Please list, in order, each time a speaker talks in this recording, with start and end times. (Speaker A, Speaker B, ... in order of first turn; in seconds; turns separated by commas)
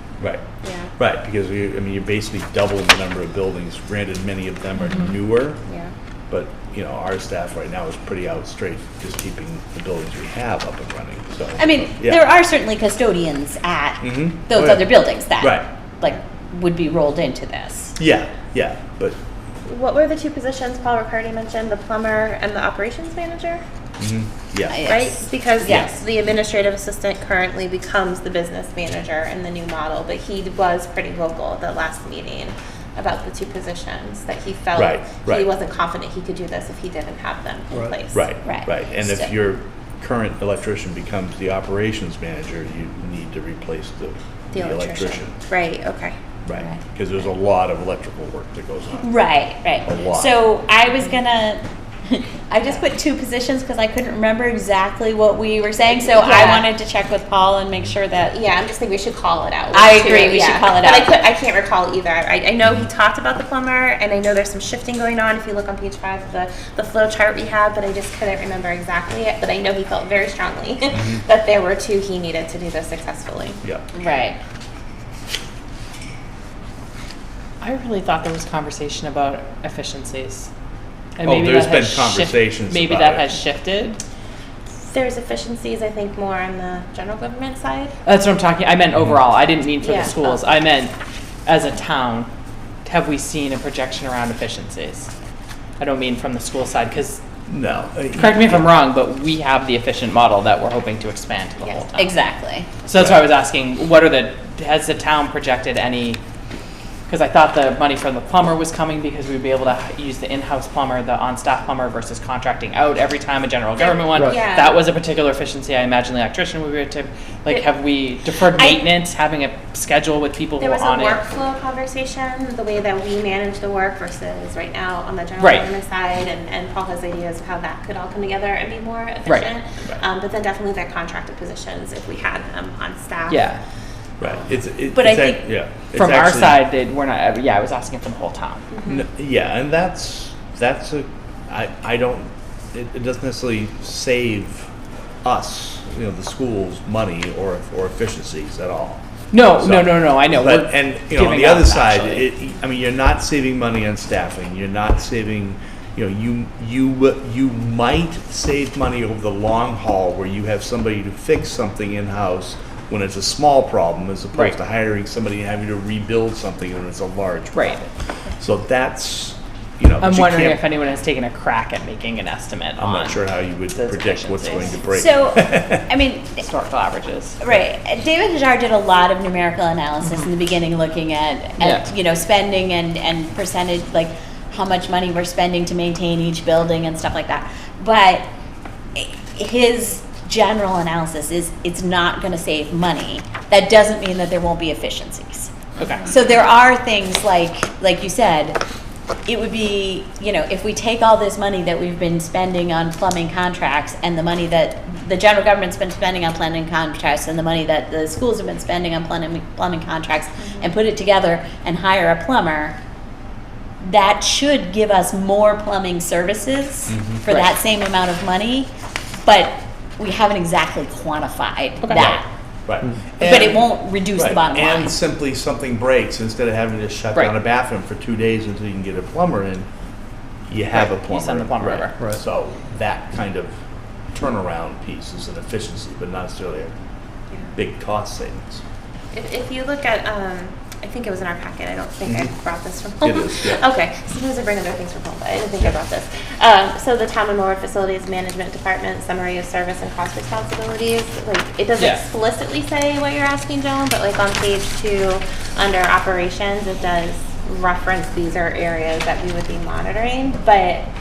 Speaker A: 0.6-0.9, Speaker B: 1.0-5.6, Speaker B: 6.3-12.2, Speaker C: 11.6-17.9, Speaker B: 14.0-15.7, Speaker B: 18.0-19.2, Speaker A: 19.6-23.6, Speaker B: 24.0-24.9, Speaker C: 24.7-25.9, Speaker A: 24.8-38.3, Speaker B: 34.8-35.5, Speaker B: 38.1-45.4, Speaker C: 38.4-39.3, Speaker A: 44.5-46.1, Speaker B: 46.4-49.2, Speaker C: 46.5-46.8, Speaker C: 49.0-58.4, Speaker B: 49.8-50.4, Speaker A: 55.9-56.7, Speaker A: 58.3-73.6, Speaker C: 59.7-61.2, Speaker C: 73.9-74.4, Speaker D: 77.6-80.5, Speaker D: 81.2-84.0, Speaker B: 81.2-83.3, Speaker A: 84.9-87.9, Speaker D: 88.0-90.9, Speaker A: 89.8-90.5, Speaker D: 91.5-92.3, Speaker D: 92.8-95.1, Speaker D: 95.8-97.2, Speaker B: 97.5-98.7, Speaker D: 98.2-102.1, Speaker A: 101.6-101.8, Speaker C: 102.0-102.7, Speaker D: 102.8-106.2, Speaker B: 102.9-103.3, Speaker D: 107.1-121.2, Speaker A: 113.8-114.8, Speaker A: 120.6-133.5, Speaker D: 125.4-125.7, Speaker D: 129.2-129.5, Speaker D: 133.3-133.6, Speaker B: 134.2-136.6, Speaker C: 134.9-135.4, Speaker D: 135.9-138.7, Speaker A: 138.7-139.1, Speaker B: 138.8-144.7, Speaker B: 145.2-149.0, Speaker D: 149.3-152.3, Speaker B: 149.5-167.9, Speaker D: 167.5-167.9, Speaker B: 168.4-170.6, Speaker D: 170.0-174.8, Speaker B: 172.8-175.9, Speaker C: 174.8-176.5, Speaker D: 176.4-177.4, Speaker C: 177.4-188.2, Speaker D: 181.6-181.9, Speaker C: 188.9-195.5, Speaker D: 195.8-196.1, Speaker C: 196.1-198.6, Speaker C: 199.2-212.7, Speaker A: 210.4-210.7, Speaker C: 213.8-218.7, Speaker B: 216.9-217.2, Speaker C: 219.2-222.2, Speaker D: 221.9-222.2, Speaker B: 222.7-229.7, Speaker C: 223.2-224.9, Speaker B: 230.5-233.5, Speaker D: 230.7-232.0, Speaker B: 234.1-236.7, Speaker B: 237.5-238.6, Speaker A: 239.1-260.9, Speaker B: 242.0-242.3, Speaker B: 243.0-243.6, Speaker D: 251.8-252.1